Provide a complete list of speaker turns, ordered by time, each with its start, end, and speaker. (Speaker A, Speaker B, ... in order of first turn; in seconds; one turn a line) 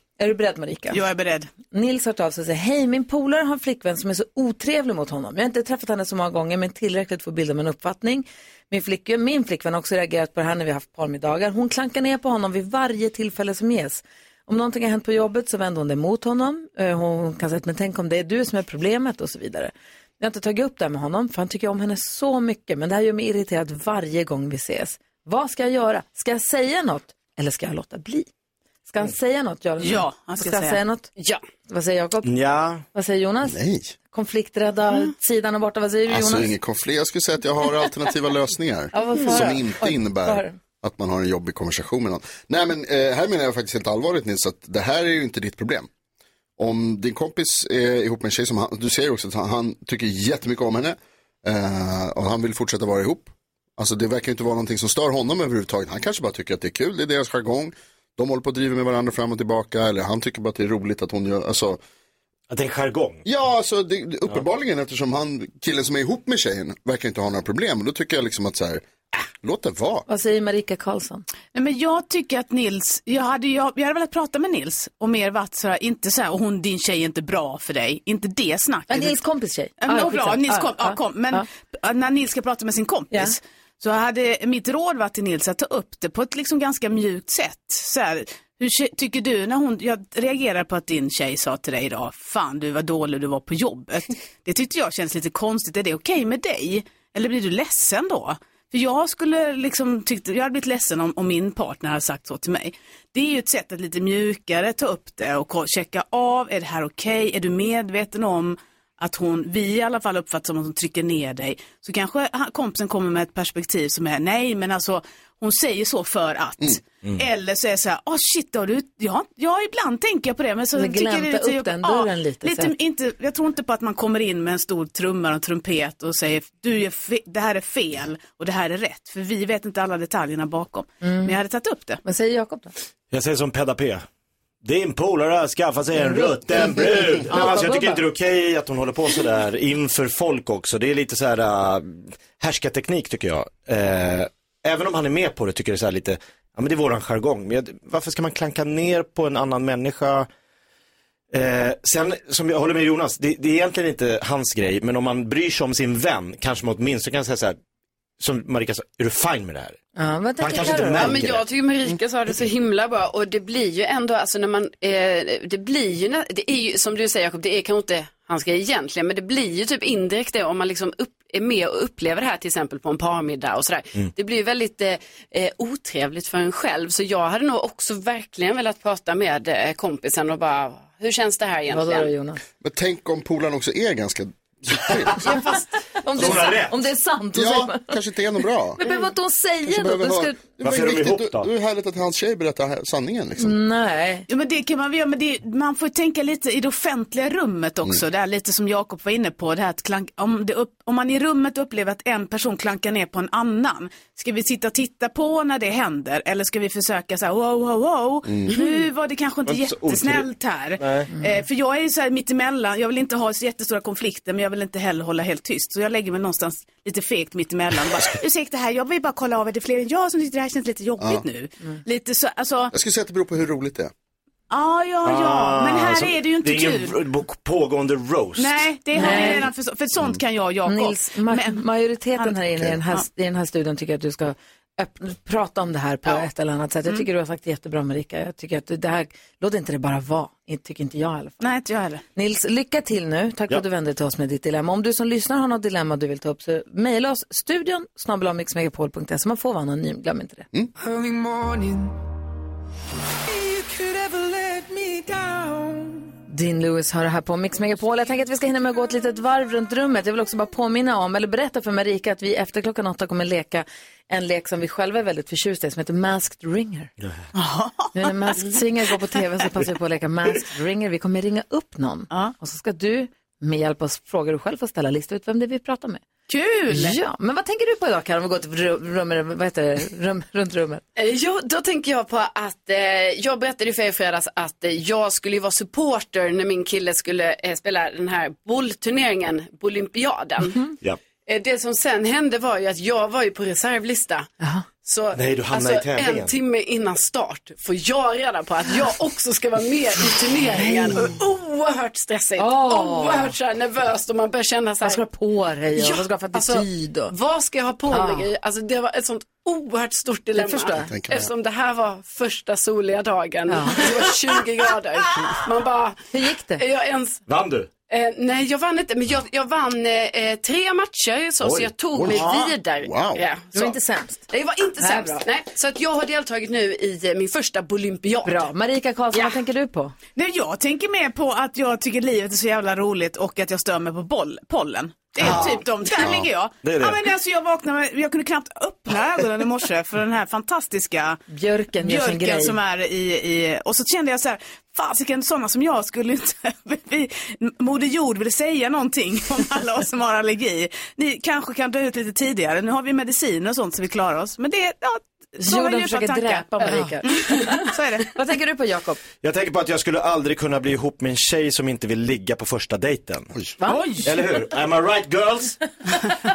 Speaker A: 0.2-1.1
Speaker B: 0.9-1.5
Speaker A: 1.7-28.3
Speaker A: 28.9-31.1
Speaker B: 29.8-30.8
Speaker C: 31.2-31.4
Speaker A: 31.7-32.3
Speaker D: 32.2-32.8
Speaker A: 32.9-33.6
Speaker E: 33.5-33.9
Speaker A: 34.1-36.5
Speaker E: 36.1-45.9
Speaker A: 38.9-40.5
Speaker E: 46.6-61.8
Speaker D: 62.5-63.2
Speaker E: 63.2-70.0
Speaker A: 70.1-71.2
Speaker B: 71.5-79.2
Speaker A: 78.9-81.4
Speaker B: 79.8-132.0
Speaker A: 83.1-83.3
Speaker A: 120.7-122.7
Speaker A: 131.0-131.3
Speaker A: 132.0-132.7
Speaker D: 133.1-134.1
Speaker D: 134.6-150.3
Speaker A: 135.9-138.0
Speaker D: 151.3-157.6
Speaker D: 158.2-159.8
Speaker A: 159.9-161.1
Speaker D: 160.4-161.4
Speaker C: 160.9-182.1
Speaker A: 181.7-182.4
Speaker E: 182.6-185.3
Speaker D: 184.7-186.8
Speaker A: 185.2-187.9
Speaker E: 187.3-188.8
Speaker A: 188.8-190.4
Speaker E: 189.7-193.6
Speaker D: 190.6-191.5
Speaker A: 193.4-194.2
Speaker B: 194.3-222.7
Speaker E: 208.2-208.5
Speaker D: 209.4-210.3
Speaker D: 210.8-211.1
Speaker A: 211.1-211.4
Speaker E: 221.0-221.2
Speaker E: 222.7-223.9
Speaker B: 224.5-226.9
Speaker D: 225.0-228.7
Speaker B: 228.4-231.6
Speaker A: 228.9-229.4
Speaker A: 230.7-241.4
Speaker B: 241.4-242.0
Speaker A: 242.1-250.5
Speaker F: 250.8-251.9
Speaker F: 253.3-256.1
Speaker A: 256.3-266.9
Speaker B: 267.4-268.4
Speaker A: 267.9-276.0
Speaker B: 276.3-277.0
Speaker A: 276.7-280.8
Speaker C: 280.9-290.6
Speaker C: 291.2-294.3
Speaker A: 294.4-294.6
Speaker C: 294.8-305.0
Speaker D: 295.1-296.3
Speaker A: 300.5-301.1
Speaker A: 302.4-303.3
Speaker A: 304.8-307.1
Speaker C: 305.8-317.2
Speaker A: 307.9-308.3
Speaker A: 310.3-310.9
Speaker E: 310.8-311.3
Speaker A: 313.5-313.9
Speaker A: 316.1-316.6
Speaker D: 317.3-317.7
Speaker C: 317.9-323.8
Speaker D: 321.4-322.5
Speaker E: 322.0-322.3
Speaker E: 322.8-323.2
Speaker A: 323.5-325.2
Speaker C: 324.3-328.5
Speaker A: 328.2-329.9
Speaker B: 330.1-341.2
Speaker E: 335.2-336.3
Speaker D: 335.2-335.5
Speaker C: 335.2-335.5
Speaker D: 336.6-337.0
Speaker A: 341.3-342.6
Speaker B: 341.8-358.1
Speaker A: 355.4-359.0
Speaker D: 359.2-363.4
Speaker B: 363.7-364.0
Speaker D: 364.0-365.6